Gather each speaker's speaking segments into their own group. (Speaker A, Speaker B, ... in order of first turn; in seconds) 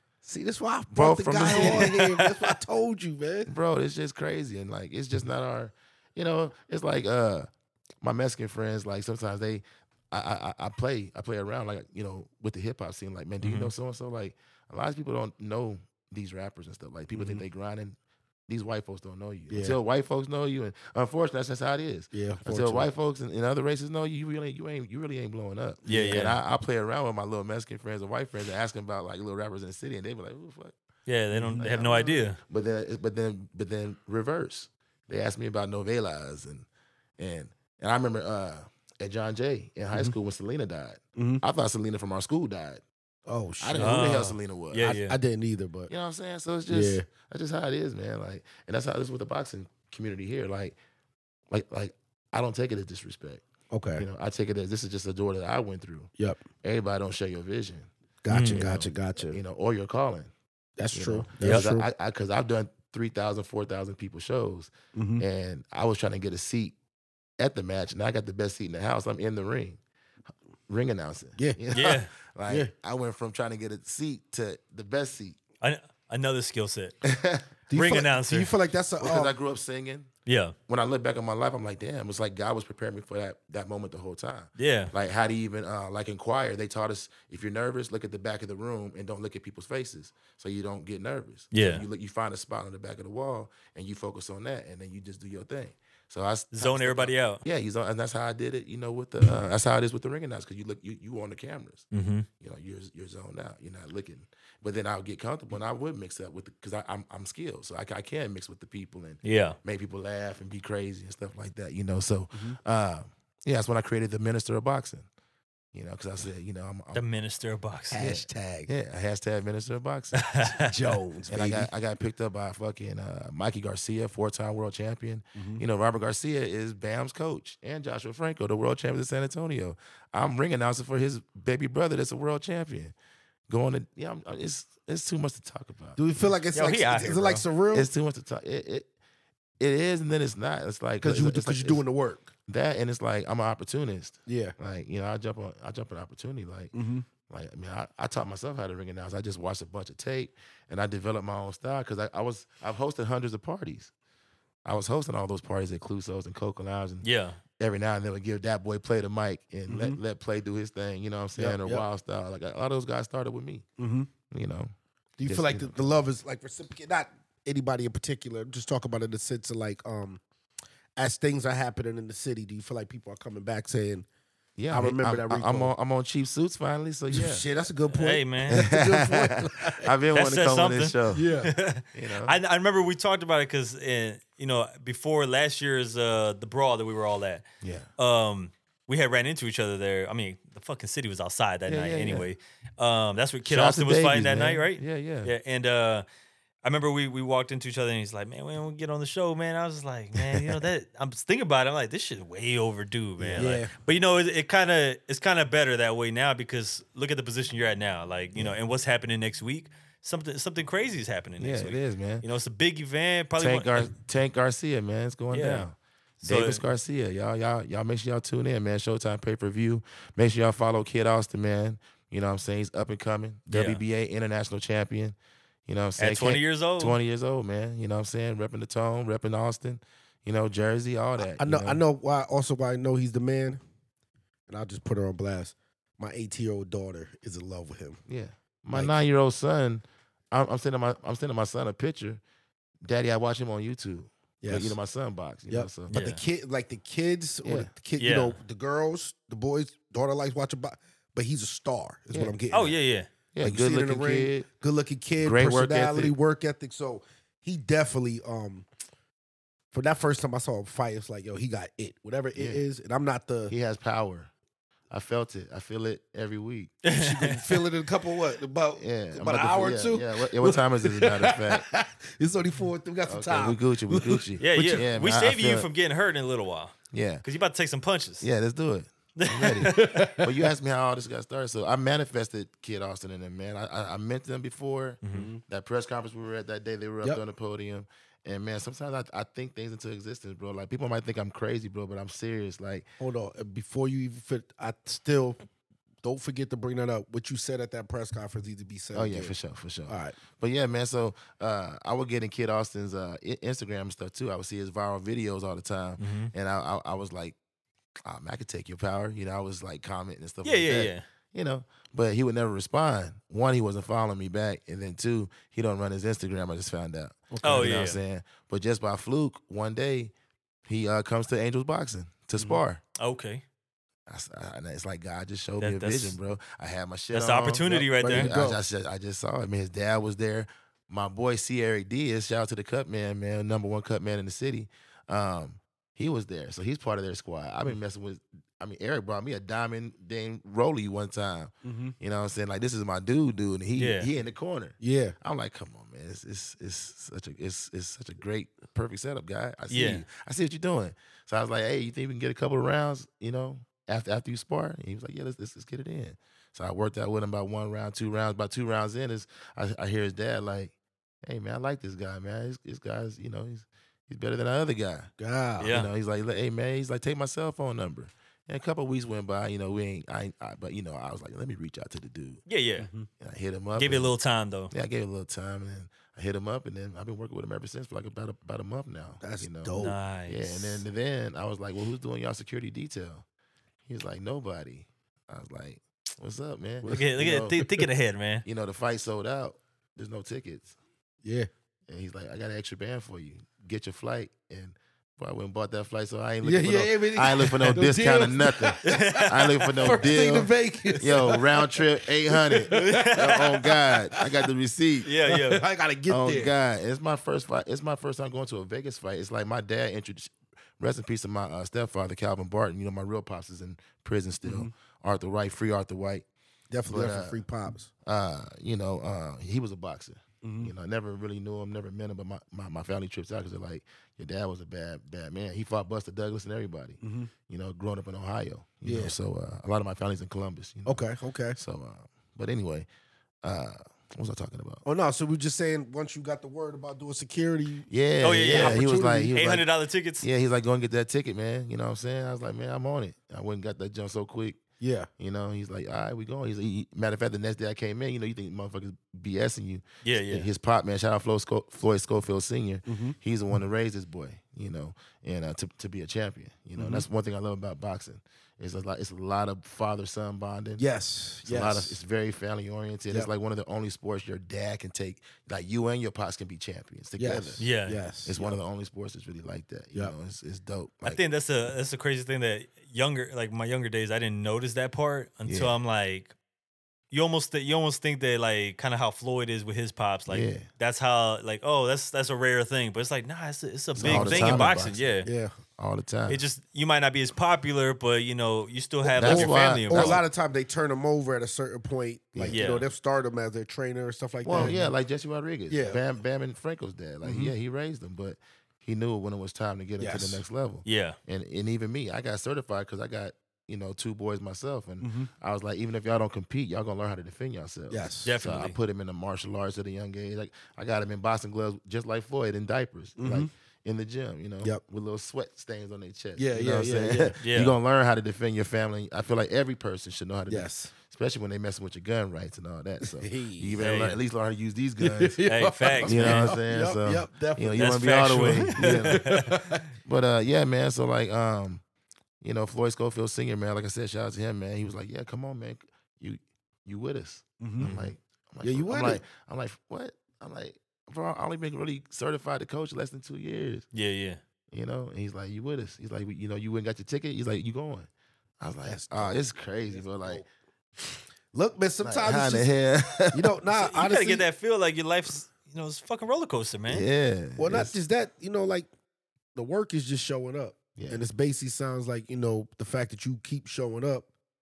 Speaker A: 0.2-3.5, 17.1-17.4, 19.5-19.8, 22.1-22.9, 25.9-26.4, 31.3-31.7, 41.2-41.4, 43.3-44.3, 44.8-45.9, 46.7-47.1, 53.7-54.0, 58.2-59.4, 60.8-61.9, 64.9-65.2, 71.4-71.6, 77.7-79.3, 112.3-112.6, 117.9-118.7, 120.4-121.7, 125.3-125.6, 136.0-137.9, 141.0-142.3, 144.3-144.6, 146.7-147.1, 159.7-160.0, 161.4-161.8, 163.8-164.1, 165.2-170.2, 171.0-174.1, 174.7-175.7, 177.1-179.9, 181.1-181.5, 203.4-203.7, 231.2-233.6, 234.5-238.0, 238.7-239.0, 244.4-244.8, 245.5-252.8, 253.4-258.7, 259.7-263.5, 266.9-274.8, 279.6-280.3, 285.1-285.4, 293.0-295.4, 296.0-299.4, 299.9-300.2, 317.3-317.7, 327.9-328.6, 341.6-341.9, 344.8-345.2, 365.2-365.8, 372.8-373.1, 379.2-380.0, 386.8-387.9, 391.2-391.5, 396.4-404.3, 405.2-406.5, 414.4-414.7, 416.7-417.9, 420.4-420.7, 427.0-427.3, 428.8-429.1, 430.9-431.6, 434.9-437.9, 438.5-439.3, 444.8-445.1, 452.9-453.2, 456.8-457.1, 460.8-462.0, 467.2-468.6, 484.0-484.7, 485.2-485.6, 489.1-494.9, 495.7-496.0, 497.2-497.5, 500.0-500.4, 505.0-505.3, 507.9-508.3, 513.2-513.5, 516.4-517.4, 520.5-520.9, 523.0-523.8, 525.0-527.9, 528.5-529.8, 537.6-537.9, 538.6-539.2, 548.9-550.5, 551.0-552.7, 553.3-554.5, 557.6-558.9, 559.5-564.3
Speaker B: 0.9-1.9, 3.5-7.5, 8.0-18.0, 18.5-30.8, 31.6-36.7, 37.2-42.8, 43.6-44.9, 45.9-50.8, 51.5-53.4, 54.0-56.1, 56.6-57.9, 58.5-60.3, 60.9-66.8, 67.4-69.8, 70.7-75.4, 77.0-77.5, 79.0-80.1, 80.7-101.9, 102.4-115.1, 115.7-117.0, 118.0-120.3, 121.3-132.9, 133.5-136.0, 137.7-138.9, 139.6-141.8, 142.5-146.7, 147.3-153.9, 154.7-157.1, 157.6-163.7, 164.3-164.7, 165.2-165.9, 174.6-177.4, 178.5-181.2, 181.9-182.4, 187.6-187.9, 191.7-192.3, 193.5-195.3, 203.2-203.5, 211.4-212.2, 213.4-231.8, 238.1-242.2, 242.8-245.9, 247.4-247.7, 253.3-254.5, 255.2-256.1, 262.4-262.6, 263.5-264.3, 264.9-266.8, 268.8-271.7, 273.1-275.7, 276.9-277.2, 278.2-292.9, 298.9-307.4, 308.1-320.1, 320.7-322.8, 324.1-360.7, 361.2-365.1, 365.6-372.4, 373.2-374.1, 374.7-379.8, 380.3-383.2, 383.9-387.6, 388.4-390.8, 391.9-405.1, 406.1-416.2, 416.9-417.4, 418.0-431.0, 431.6-432.9, 433.4-434.8, 437.9-439.7, 440.2-444.6, 445.2-460.9, 461.4-467.7, 468.2-471.2, 475.5-475.8, 480.3-480.7, 484.0-485.1, 485.8-486.4, 489.1-490.2, 492.4-492.6, 494.4-525.4, 526.0-529.3, 530.0-531.8, 532.4-543.9, 544.7-548.1, 548.6-550.4, 552.0-553.5, 556.9-558.0, 561.0-561.2
Speaker C: 1.5-2.4, 13.4-13.7, 25.9-26.4, 31.1-32.4, 43.8-45.2, 58.3-58.7, 61.4-61.7, 71.7-72.1, 75.6-77.0, 77.7-78.5, 80.3-80.5, 84.6-84.9, 91.5-91.8, 96.5-97.4, 101.9-102.3, 109.2-109.6, 117.0-118.0, 120.2-120.7, 136.5-137.4, 157.0-157.4, 177.9-178.7, 180.2-187.4, 188.0-196.1, 196.6-213.9, 215.3-215.7, 216.2-216.6, 223.5-223.8, 226.0-227.0, 245.9-246.2, 248.0-248.4, 252.5-253.1, 266.8-267.6, 274.4-278.3, 279.2-280.1, 285.0-285.3, 306.0-306.3, 310.4-311.1, 317.4-318.0, 322.4-323.4, 325.6-326.2, 327.1-328.3, 343.8-344.1, 349.7-350.1, 365.6-365.9, 372.5-372.9, 373.8-374.7, 379.8-380.8, 386.9-388.4, 398.8-400.0, 402.7-403.6, 405.1-405.7, 438.2-440.3, 450.0-450.5, 467.6-468.0, 471.0-476.3, 477.1-485.3, 486.3-490.2, 492.5-492.9, 500.9-501.2, 508.2-508.8, 517.4-517.8, 523.8-524.2, 525.5-526.6, 527.8-529.8, 537.8-538.1, 543.9-544.4, 553.7-557.1